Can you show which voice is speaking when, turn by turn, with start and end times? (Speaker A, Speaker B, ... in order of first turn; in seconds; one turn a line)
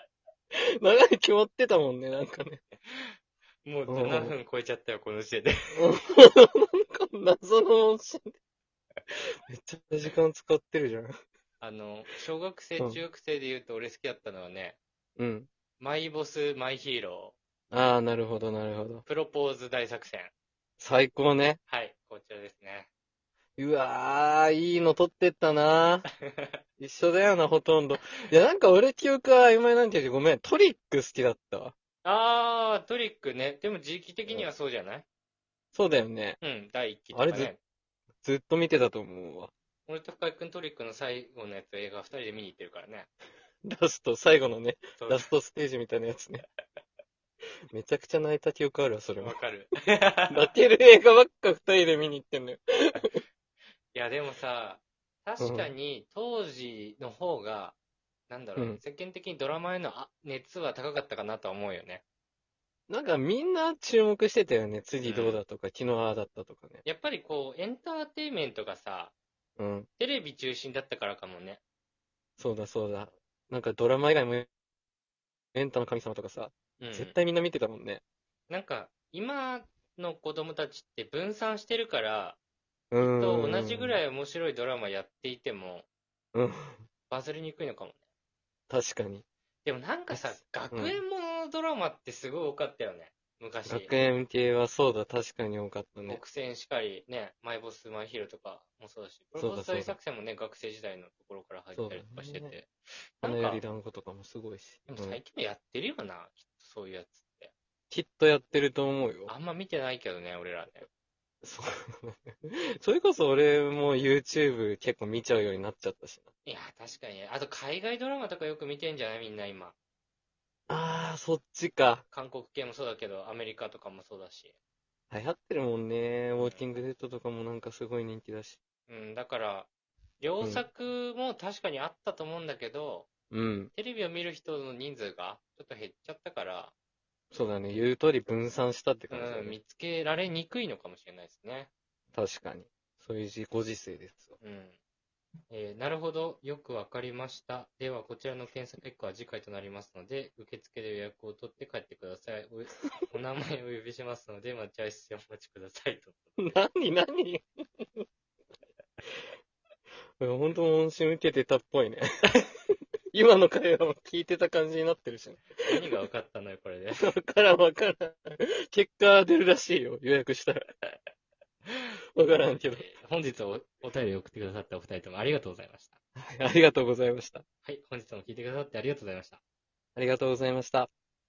Speaker A: 0.5-2.6
Speaker B: 2.8-5.8
Speaker A: 3.9-4.3
Speaker A: 5.7-8.3
Speaker A: 9.1-11.1
Speaker B: 11.6-14.8
Speaker A: 15.2-15.5
Speaker B: 15.8-17.4
Speaker A: 17.7-19.0
Speaker B: 19.1-20.3
Speaker A: 20.8-21.6
Speaker B: 21.7-22.9
Speaker A: 23.6-26.1
Speaker B: 26.2-26.6
Speaker A: 26.8-31.7
Speaker B: 32.0-35.0
Speaker A: 35.7-36.4
Speaker B: 36.4-37.6
Speaker A: 37.1-37.5
Speaker A: 38.2-39.5
Speaker B: 39.9-43.1
Speaker A: 43.6-46.4
Speaker B: 45.0-45.3
Speaker A: 47.7-49.4
Speaker B: 49.2-50.5
Speaker A: 50.3-53.2
Speaker B: 53.9-57.8
Speaker A: 55.4-55.7
Speaker B: 58.3-62.0
Speaker A: 58.5-58.8
Speaker A: 62.9-66.8
Speaker B: 65.0-65.4
Speaker B: 66.8-69.1
Speaker A: 69.6-69.9
Speaker B: 70.0-71.6
Speaker A: 72.4-74.5
Speaker A: 75.5-78.0
Speaker B: 76.8-77.2
Speaker B: 78.5-82.4
Speaker A: 82.9-84.0
Speaker B: 83.0-85.8
Speaker A: 86.3-86.8
Speaker B: 87.1-88.0
Speaker A: 88.7-89.2
Speaker B: 89.6-93.9
Speaker A: 90.1-91.0
Speaker A: 93.7-96.2
Speaker B: 96.1-103.6
Speaker A: 99.3-100.0
Speaker A: 101.7-102.5
Speaker A: 103.2-105.2
Speaker B: 104.9-107.5
Speaker A: 107.9-109.3
Speaker B: 109.3-110.9
Speaker A: 111.4-116.3
Speaker B: 116.4-119.7
Speaker A: 120.7-122.0
Speaker B: 122.1-124.5
Speaker A: 125.1-128.6
Speaker B: 126.4-126.7
Speaker B: 128.9-129.7
Speaker B: 130.2-133.1
Speaker A: 130.4-130.6
Speaker A: 133.3-133.7
Speaker B: 133.7-136.7
Speaker A: 137.3-139.6
Speaker B: 139.1-141.7
Speaker A: 142.1-144.3
Speaker B: 144.4-144.8
Speaker B: 145.5-156.2
Speaker A: 156.4-158.0
Speaker A: 160.2-162.3
Speaker A: 163.1-165.9
Speaker B: 165.6-167.1
Speaker A: 167.0-170.7
Speaker A: 172.2-172.9
Speaker B: 172.6-176.0
Speaker A: 176.2-177.4
Speaker B: 177.6-179.4
Speaker A: 179.9-180.9